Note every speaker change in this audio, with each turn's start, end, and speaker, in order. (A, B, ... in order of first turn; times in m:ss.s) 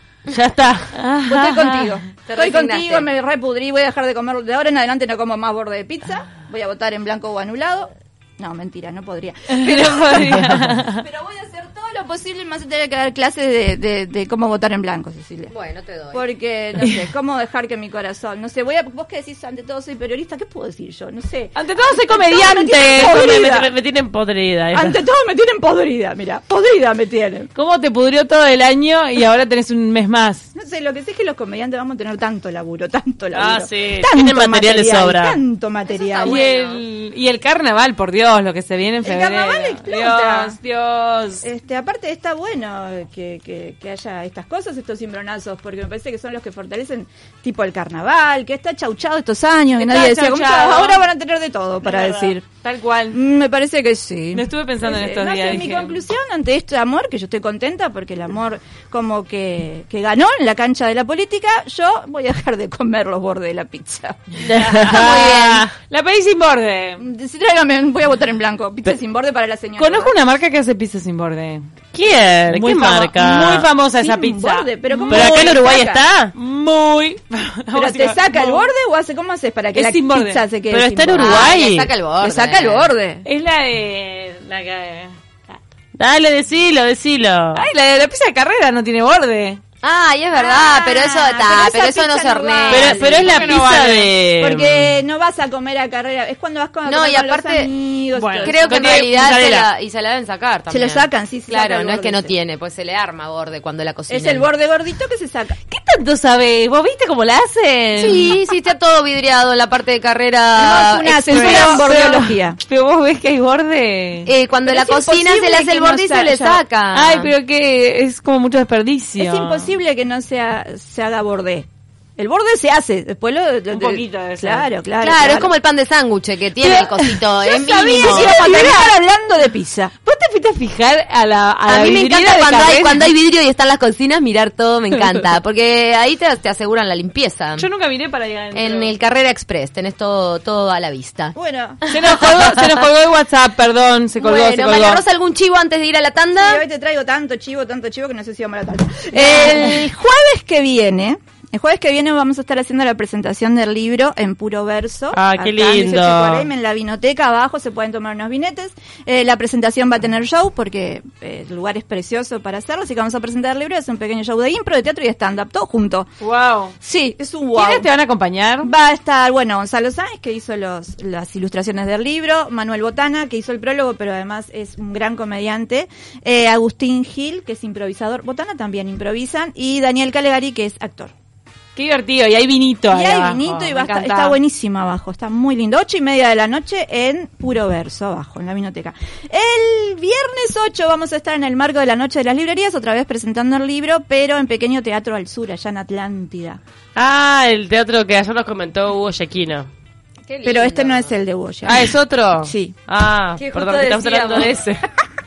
0:00.3-0:01.0 A
0:00.9-0:02.0 B
0:01.2-0:15.5 C
0:02.3-0:03.1 D
0:09.5-0:11.0 B
0:15.5-0:16.3 D
0:16.1-0:23.7 C
0:21.6-0:23.4 B
0:23.0-0:25.0 A
0:24.7-0:27.5 C
0:27.6-0:30.5 B
0:30.6-0:36.4 C
0:33.3-0:35.4 A
0:35.9-0:36.8 D
0:36.2-0:41.4 B
0:39.0-0:40.6 C
0:41.4-0:52.5 C
0:49.8-0:51.0 B
0:51.9-0:52.3 A
0:52.6-0:53.2 B
0:53.1-1:04.4 C
0:54.3-0:56.0 B
1:04.4-1:05.8 A
1:04.5-1:07.0 B
1:04.9-1:05.6 D
1:05.0-1:05.3 C
1:07.0-1:10.1 C
1:09.8-1:11.7 B
1:11.9-1:13.7 A
1:12.5-1:15.7 B
1:13.9-1:16.0 C
1:15.1-1:16.3 A
1:16.4-1:18.7 B
1:17.7-1:21.5 C
1:19.7-1:20.4 B
1:20.7-1:21.9 A
1:21.1-1:22.9 D
1:22.2-1:23.2 C
1:23.2-1:25.6 B
1:26.0-1:27.7 A
1:27.6-1:29.6 B
1:29.8-1:33.4 D
1:30.3-1:33.7 C
1:32.7-1:34.9 A
1:33.0-1:34.1 B
1:34.4-1:39.0 C
1:36.9-1:37.7 D
1:38.2-1:39.6 B
1:38.4-1:44.5 D
1:38.7-1:39.6 A
1:40.7-1:42.3 C
1:44.1-1:45.6 C
1:45.7-1:48.4 B
1:48.0-1:51.8 D
1:50.5-1:52.6 C
1:51.3-1:54.3 B
1:54.3-1:57.3 D
1:54.7-1:56.6 C
1:56.9-1:59.7 B
1:59.2-2:05.5 C
2:03.7-2:04.7 B
2:05.0-2:08.7 D
2:06.6-2:07.2 B
2:07.4-2:09.9 C
2:08.0-2:08.9 B
2:10.0-2:13.1 B
2:11.7-2:17.7 D
2:17.6-2:18.9 B
2:18.5-2:21.4 D
2:21.4-2:21.8 C
2:21.9-2:22.6 D
2:21.9-2:25.0 B
2:24.2-2:26.6 D
2:26.4-2:46.1 C
2:29.2-2:29.5 D
2:35.1-2:36.5 A
2:46.2-2:46.8 B
2:46.8-2:47.9 C
2:47.5-2:48.7 B
2:48.6-3:01.1 C
3:01.8-3:04.4 B
3:02.9-3:16.6 C
3:17.0-3:19.7 A
3:20.3-3:21.0 B
3:20.4-3:22.8 C
3:21.6-3:24.9 A
3:23.4-3:24.5 B